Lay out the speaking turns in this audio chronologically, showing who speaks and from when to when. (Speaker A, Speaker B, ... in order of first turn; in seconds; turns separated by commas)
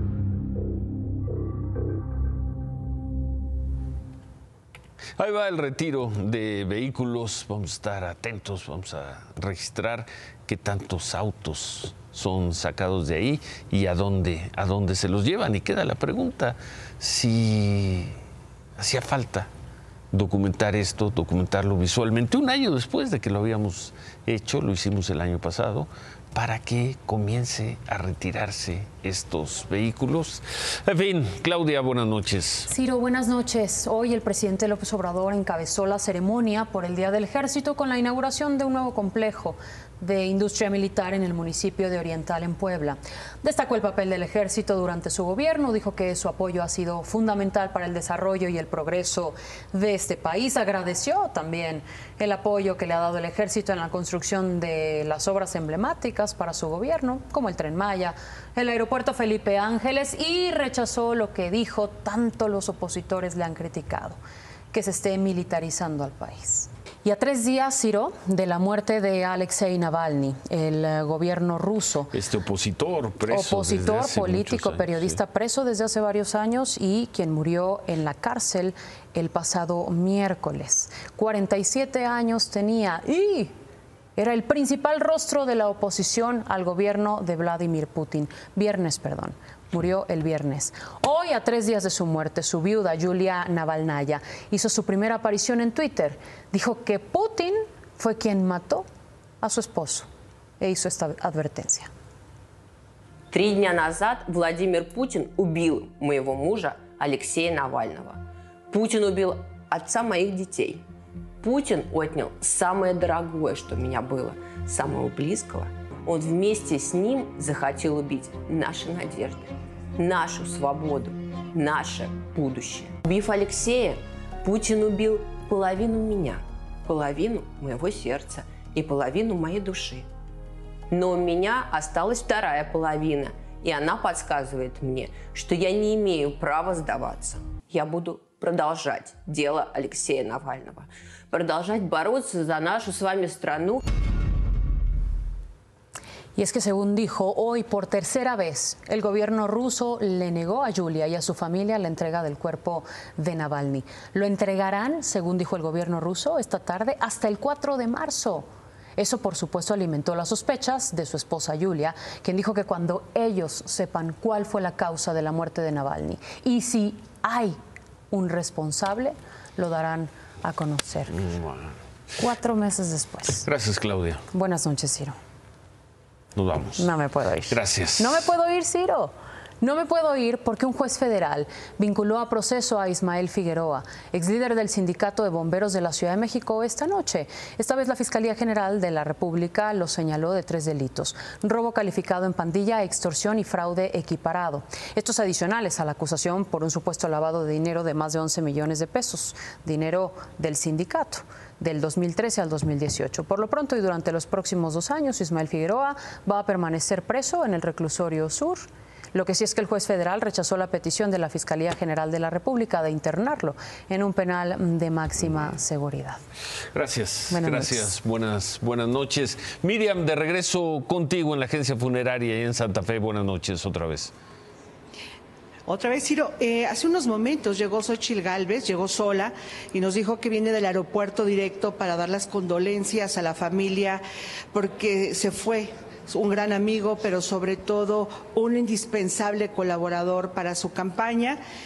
Speaker A: 5.2-18.2, Speaker A: 18.8-19.5, Speaker A: 20.1-32.7, Speaker B: 32.7-64.2, Speaker B: 64.7-72.1, Speaker A: 72.1-75.2, Speaker B: 73.3-83.5, Speaker B: 84.2-98.9, Speaker B: 99.4-100.1, Speaker B: 100.6-101.9, Speaker C: 103.3-110.8, Speaker C: 111.4-130.1, Speaker C: 130.9-143.8, Speaker B: 146.3-167.6, Speaker B: 168.1-171.2, Speaker A: 171.1-171.8, Speaker B: 172.2-173.5, Speaker A: 173.4-174.2, Speaker B: 174.3-175.2, Speaker A: 176.3-176.8, Speaker B: 176.8-216.2, Speaker A: 177.5-178.3, Speaker A: 216.7-224.1, Speaker B: 217.3-217.9, Speaker D: 225.7-234.0, Speaker D: 234.5-241.4